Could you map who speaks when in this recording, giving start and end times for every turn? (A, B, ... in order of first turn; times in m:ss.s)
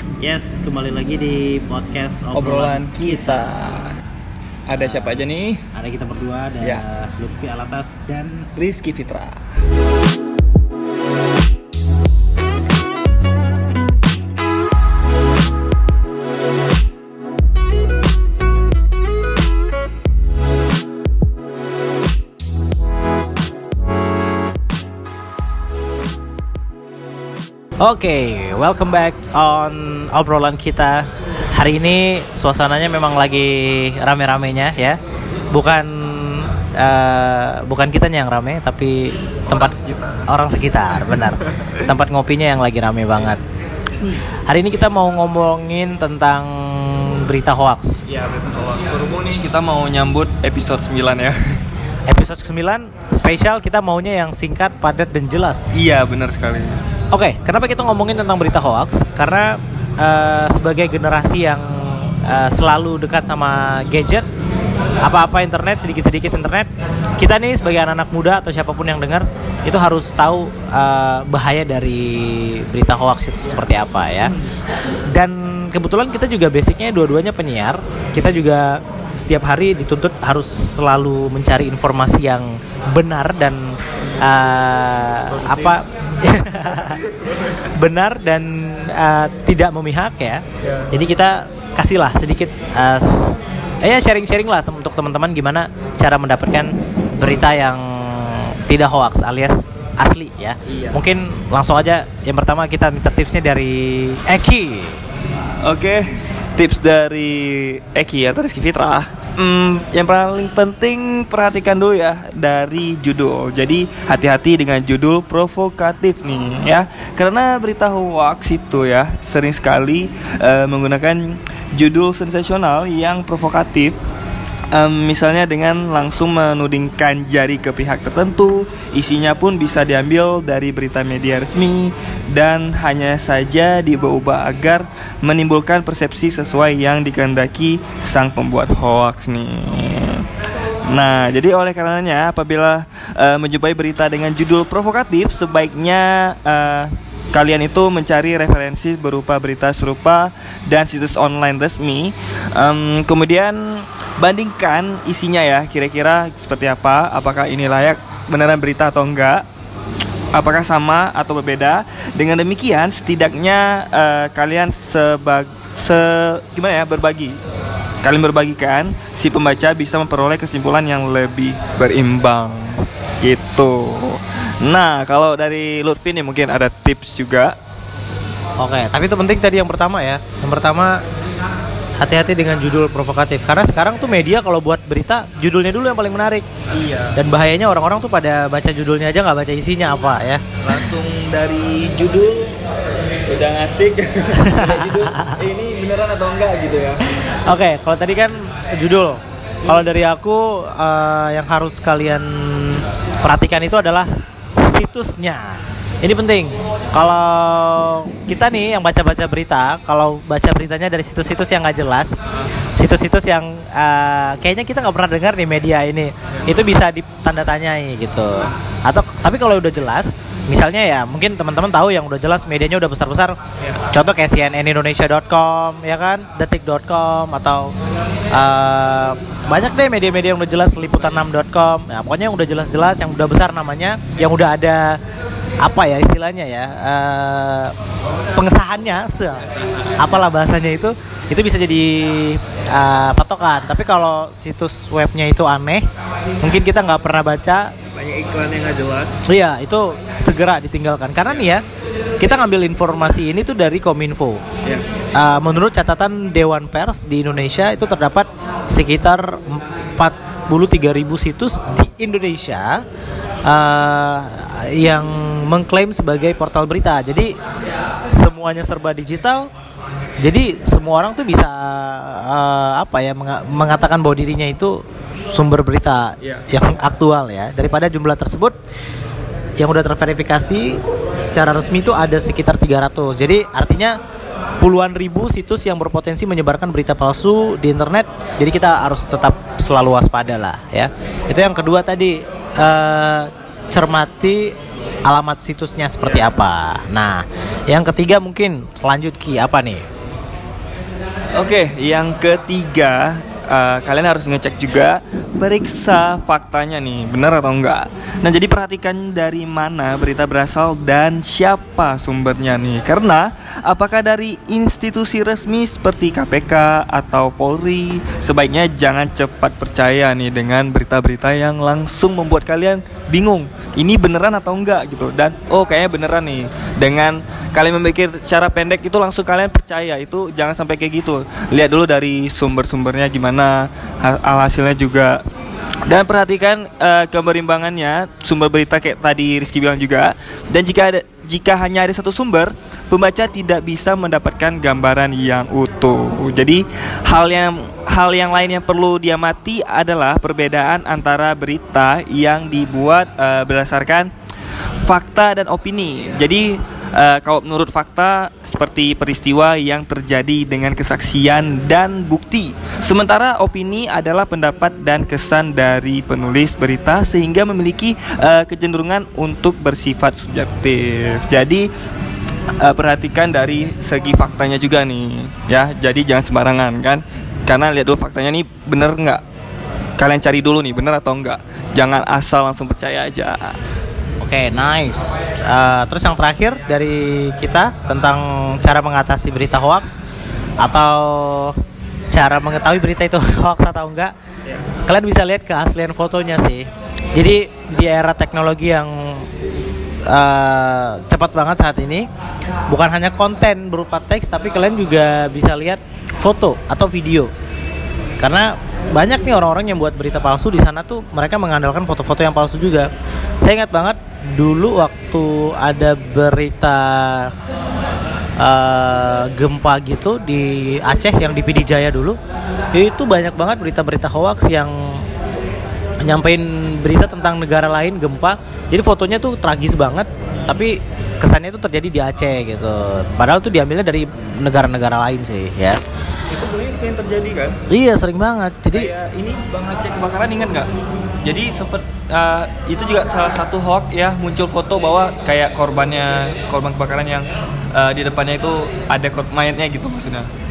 0:00.2-0:03.4 A
0:02.3-0:03.9 B
0:04.7-0:05.7 B
0:04.8-0:05.1 A
0:05.7-0:08.5 A
0:08.6-0:09.4 B
0:27.8-0:35.0 A
0:35.5-0:39.7 A
0:39.5-0:40.3 B
0:40.3-0:43.4 A
0:41.0-0:41.8 B
0:44.5-0:48.0 A
0:48.1-0:51.4 B
0:52.1-0:55.6 A
0:55.7-0:56.8 B
0:57.1-1:04.2 A
1:05.0-1:14.4 A
1:15.1-1:45.0 A
1:25.3-1:25.8 B
1:26.8-1:27.5 B
1:40.7-1:41.0 B
1:45.6-1:46.0 B
1:46.6-2:04.0 B
2:04.7-2:20.3 B
2:20.9-2:39.4 B
2:40.3-2:47.4 B
2:48.0-2:57.5 B
2:58.6-3:01.0 A
3:02.0-3:06.4 A
3:06.7-3:07.2 B
3:07.1-3:10.9 A
3:10.6-3:12.6 B
3:13.2-3:17.1 B
3:14.4-3:15.4 A
3:17.3-3:32.1 A
3:32.8-3:47.7 A
3:48.3-3:55.0 A
3:55.6-3:57.7 A
3:58.3-3:59.4 A
3:59.6-4:00.1 B
4:00.0-4:05.8 A
4:06.4-4:07.7 A
4:07.9-4:09.3 B
4:09.2-4:11.6 A
4:12.2-4:14.4 A
4:15.2-4:22.8 A
4:23.4-4:27.3 A
4:28.1-4:29.5 A
4:30.2-4:34.7 A
4:35.3-4:38.6 A
4:39.6-4:43.9 A
4:44.6-4:54.5 A
4:55.0-4:59.8 A
4:56.0-4:56.3 B
5:01.4-5:35.2 B
5:35.9-5:54.1 B
5:54.8-6:11.7 B
6:12.6-6:19.2 B
6:20.0-6:23.6 B
6:24.2-6:30.0 A
6:30.6-6:31.6 A
6:32.1-6:34.1 A
6:34.8-6:39.3 A
6:40.1-6:42.1 A
6:42.7-6:47.3 A
6:48.2-6:52.9 A
6:53.4-6:57.3 A
6:58.4-7:02.2 A
7:02.7-7:05.0 A
7:06.0-7:15.8 A
7:16.3-7:17.6 B
7:17.7-7:18.9 A
7:18.7-7:20.7 B
7:21.2-7:30.3 B